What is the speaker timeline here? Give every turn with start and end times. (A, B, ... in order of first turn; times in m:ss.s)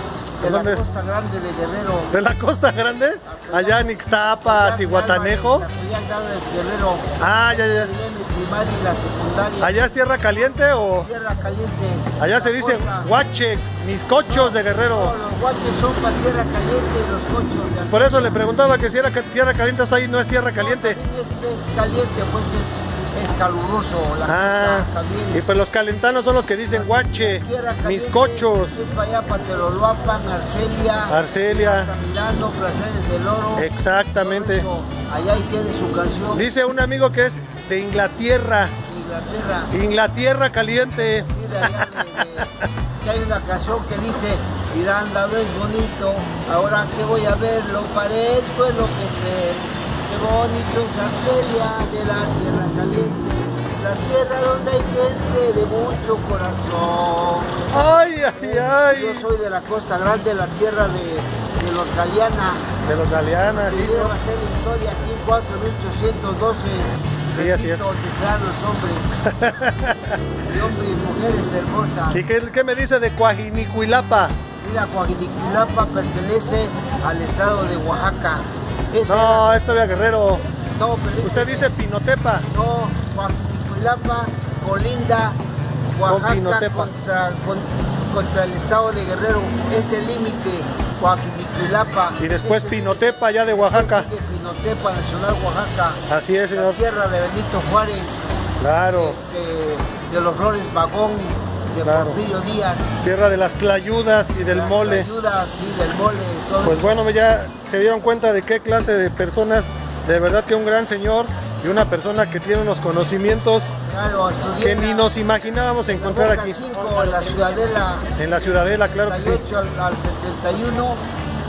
0:00.4-0:02.1 A
0:00.4-0:00.8 B
0:02.1-0:05.7 B
0:03.2-0:10.0 A
0:07.2-0:07.9 B
0:09.6-0:11.1 B
0:11.0-0:13.1 A
0:12.2-0:15.1 B
0:14.3-0:18.5 A
0:17.9-0:21.0 B
0:20.6-0:25.5 A
0:24.3-0:28.8 B
0:26.7-0:36.5 A
0:31.1-0:31.9 B
0:33.6-0:34.7 B
0:36.3-0:38.7 B
0:38.8-0:39.7 A
0:39.7-0:42.5 B
0:41.2-0:57.6 A
0:57.7-0:59.3 B
0:58.3-1:02.6 A
1:02.9-1:04.1 B
1:03.5-1:09.2 A
1:07.3-1:07.8 B
1:09.3-1:10.2 B
1:10.4-1:12.3 A
1:12.1-1:14.4 B
1:14.6-1:19.6 A
1:19.1-1:20.4 B
1:20.8-1:21.7 A
1:21.2-1:22.4 B
1:22.3-1:25.4 A
1:26.0-1:38.2 A
1:26.1-1:26.9 B
1:32.2-1:34.1 B
1:36.1-1:36.8 B
1:38.6-1:39.2 B
1:38.9-1:42.9 A
1:41.8-1:42.2 B
1:43.0-1:45.1 B
1:44.5-1:47.0 A
1:46.6-1:53.7 B
1:53.9-1:55.1 A
1:54.6-1:56.6 B
1:55.9-2:01.0 A
1:58.2-1:59.4 B